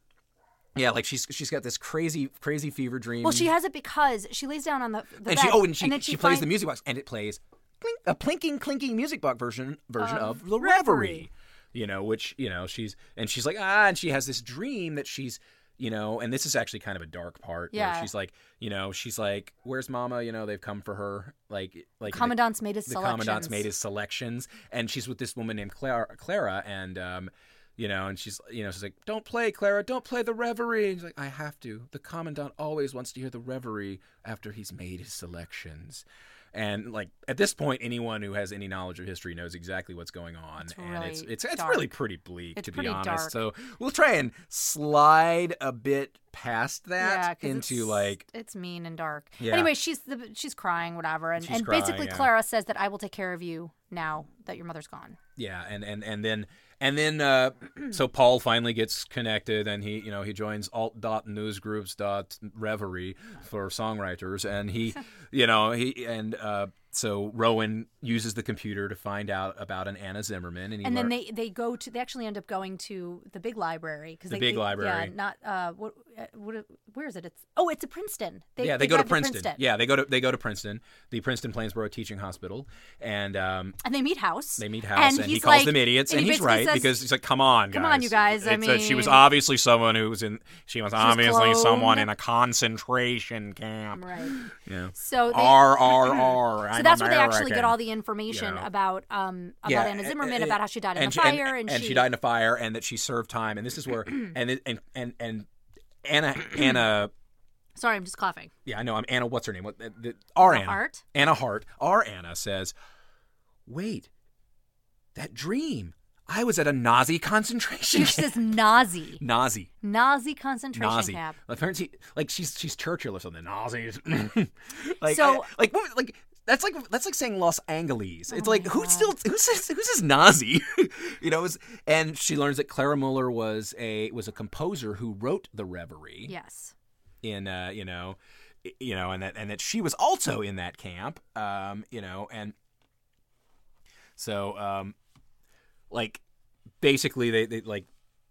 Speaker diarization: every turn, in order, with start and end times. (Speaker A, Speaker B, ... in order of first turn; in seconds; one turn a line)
Speaker A: 0.7-3.5
Speaker B: 3.2-6.5
Speaker A: 5.2-48.2
Speaker B: 10.0-11.2
Speaker B: 17.7-18.1
Speaker B: 22.1-23.6
Speaker B: 40.6-41.9
Speaker B: 42.5-43.4
Speaker B: 47.0-55.2
Speaker A: 49.4-49.7
Speaker A: 51.4-52.3
Speaker A: 55.4-71.1
Speaker B: 70.8-79.6
Speaker A: 74.3-75.1
Speaker A: 78.6-83.8
Speaker B: 83.8-87.0
Speaker A: 84.6-98.7
Speaker B: 87.7-89.3
Speaker B: 91.0-92.1
Speaker B: 93.9-94.4
Speaker B: 94.9-102.1
Speaker A: 99.6-105.5
Speaker A: 106.0-107.1
Speaker B: 107.8-108.5
Speaker A: 108.7-112.7
Speaker B: 110.4-111.0
Speaker A: 113.7-114.1
Speaker A: 115.1-118.4
Speaker B: 117.9-119.2
Speaker A: 119.2-119.7
Speaker B: 119.8-121.4
Speaker A: 120.7-136.3
Speaker B: 125.0-125.5
Speaker B: 128.3-129.1
Speaker B: 136.3-136.7
Speaker A: 137.2-142.5
Speaker A: 144.2-144.9
Speaker A: 145.9-146.2
Speaker A: 146.8-147.9